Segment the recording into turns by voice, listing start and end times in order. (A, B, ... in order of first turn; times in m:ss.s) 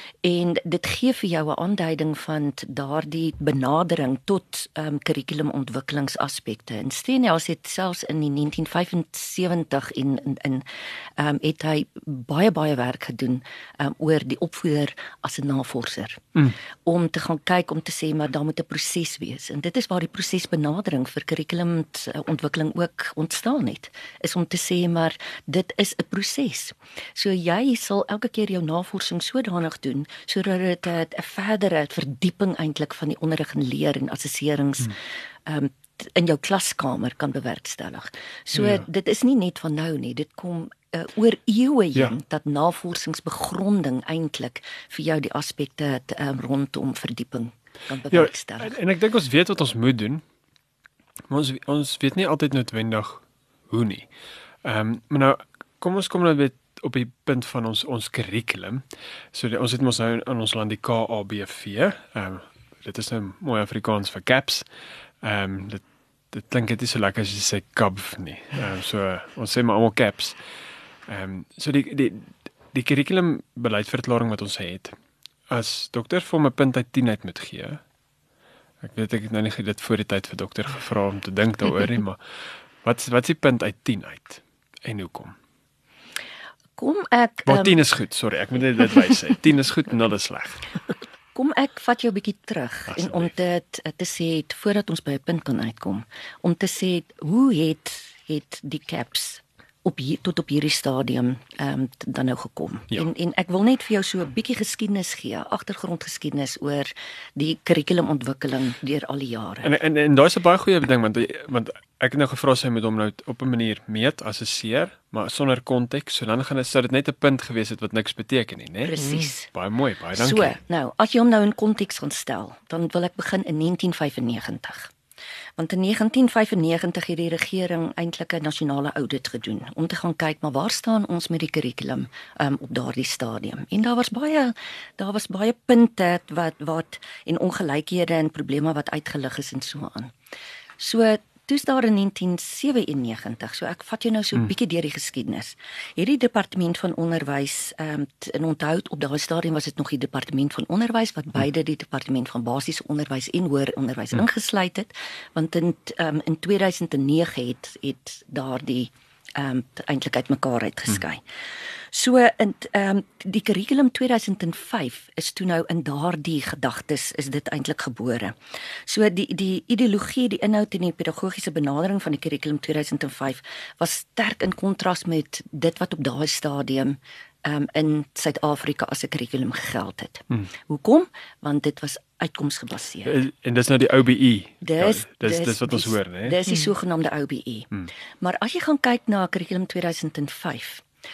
0:00.2-0:16.3 A
0:16.8-0:48.8 A
0:38.5-0:38.8 B
0:48.1-0:50.2 B
0:51.3-0:54.1 B
0:54.6-1:04.6 B
1:05.2-1:10.4 B
1:11.1-1:14.9 B
1:15.5-1:17.8 B
1:18.8-1:22.2 B
1:22.8-1:25.3 B
1:26.8-1:27.8 A
1:27.4-1:30.6 B
1:31.3-1:49.7 A
1:32.9-1:33.3 B
1:49.6-2:00.5 B
1:58.8-1:59.5 A
2:00.1-2:04.9 A
2:05.6-2:20.1 A
2:20.8-2:41.2 A
2:41.9-3:03.1 A
3:03.0-3:06.4 B
3:04.6-3:10.8 A